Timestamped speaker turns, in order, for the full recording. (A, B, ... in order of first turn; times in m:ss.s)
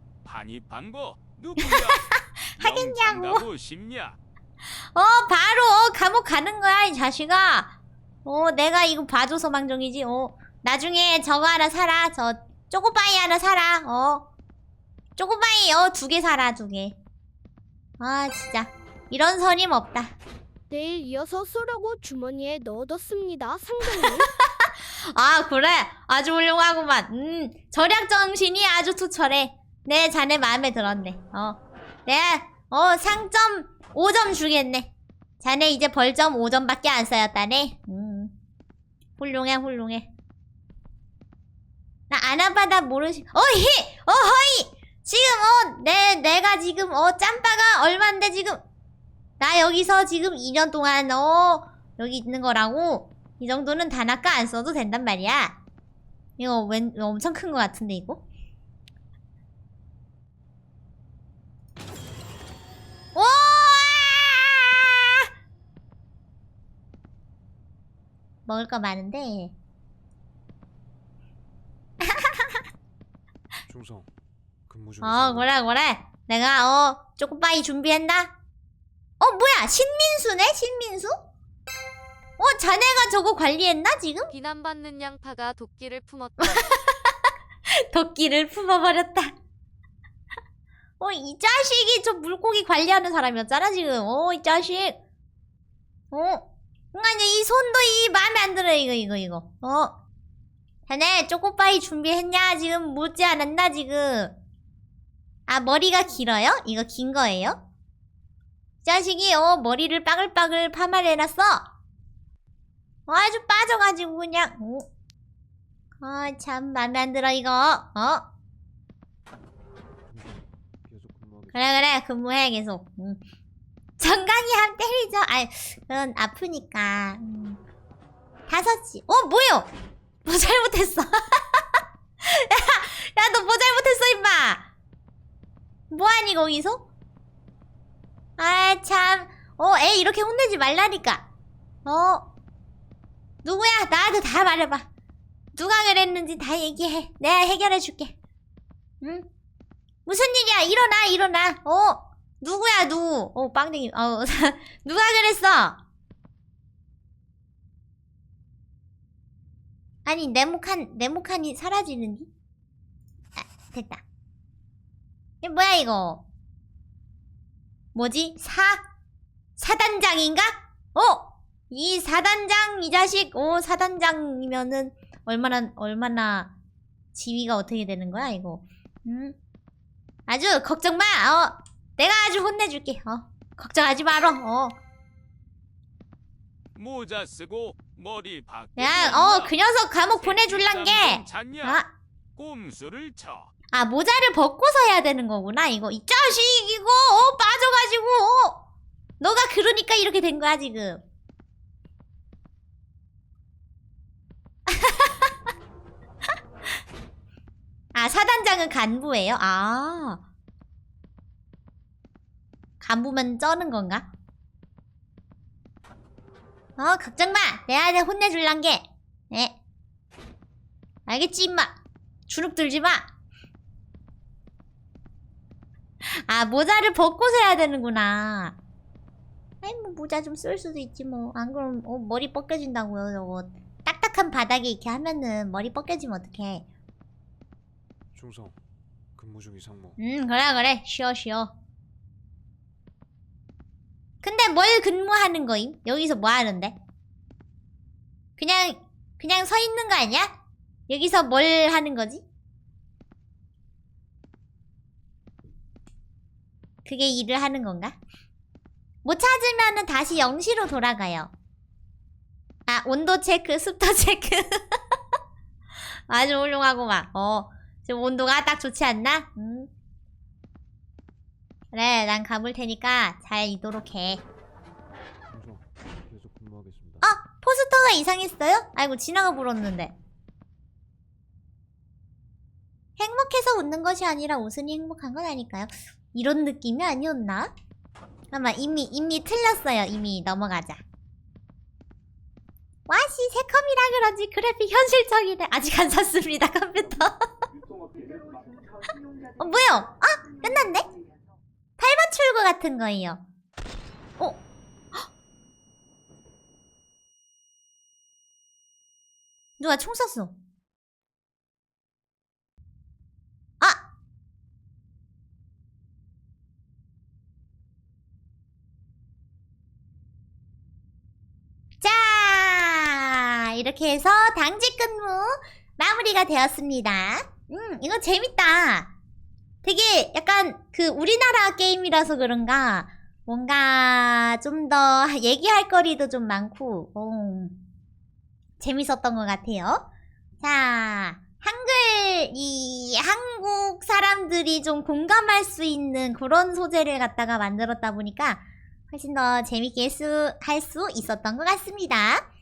0:00.2-0:04.2 A
0:01.6-0:03.4 B
0:04.8-0:07.7 B
0:08.2-0:14.3 B
0:15.2-0:17.0 B
0:18.0-0:20.2 B
0:20.7-0:24.3 C
0:23.8-0:34.9 B
0:35.4-0:38.3 B
0:39.2-0:40.1 B
0:42.1-0:48.6 B
0:49.4-0:55.6 B
0:56.4-0:58.2 B
1:03.2-1:05.2 B
1:08.5-1:09.5 B
1:12.0-1:12.6 B
1:13.7-1:14.1 D
1:14.7-1:15.5 D
1:15.0-1:18.3 B
1:19.2-1:21.2 B
1:22.4-1:24.3 B
1:24.3-1:26.8 E
1:26.4-1:27.2 B
1:27.7-1:29.3 B
1:31.0-1:35.0 B
1:36.1-1:40.0 B
1:40.9-1:44.3 B
1:45.5-1:47.6 B
1:48.8-1:51.7 B
1:53.1-1:54.9 B
1:56.0-1:58.2 B
2:00.0-2:01.9 D
2:01.5-2:03.2 B
2:04.0-2:07.6 B
2:08.5-2:09.7 B
2:10.2-2:14.7 B
2:15.9-2:16.8 B
2:18.4-2:21.2 B
2:21.8-2:22.2 B
2:23.4-2:24.9 B
2:25.6-2:28.2 B
2:29.0-2:29.3 B
2:30.1-2:35.8 B
2:40.0-2:42.3 B
2:43.4-2:44.0 B
2:45.4-2:46.2 B
2:48.0-2:48.8 B
2:49.6-2:56.5 B
2:57.2-2:59.4 B
3:00.3-3:04.8 B
3:06.8-3:09.5 A
3:08.8-3:11.9 B
3:10.1-3:11.8 A
3:12.4-3:13.5 A
3:13.7-3:18.6 B
3:19.2-3:21.0 B
3:24.7-3:25.3 B
3:27.9-3:30.2 B
3:32.8-3:34.1 B
3:36.8-3:39.6 B
3:41.1-3:41.7 B
3:42.3-3:43.1 B
3:46.0-3:48.6 B
3:49.6-3:56.6 B
3:58.1-3:58.6 D
3:59.2-4:00.0 D
4:00.0-4:01.5 B
4:04.2-4:06.8 B
4:08.4-4:10.3 B
4:10.9-4:12.2 B
4:16.8-4:18.0 B
4:19.0-4:21.3 B
4:22.7-4:24.8 B
4:26.1-4:29.7 B
4:31.7-4:34.2 B
4:35.3-4:37.0 D
4:37.0-4:39.9 B
4:43.0-4:47.5 B
4:48.3-4:50.8 B
4:52.9-4:57.2 B
4:59.4-5:00.9 B
5:01.8-5:03.2 B
5:09.6-5:10.3 B
5:21.8-5:28.9 B
5:29.6-5:37.6 B
5:38.6-5:39.8 B
5:40.4-5:52.2 B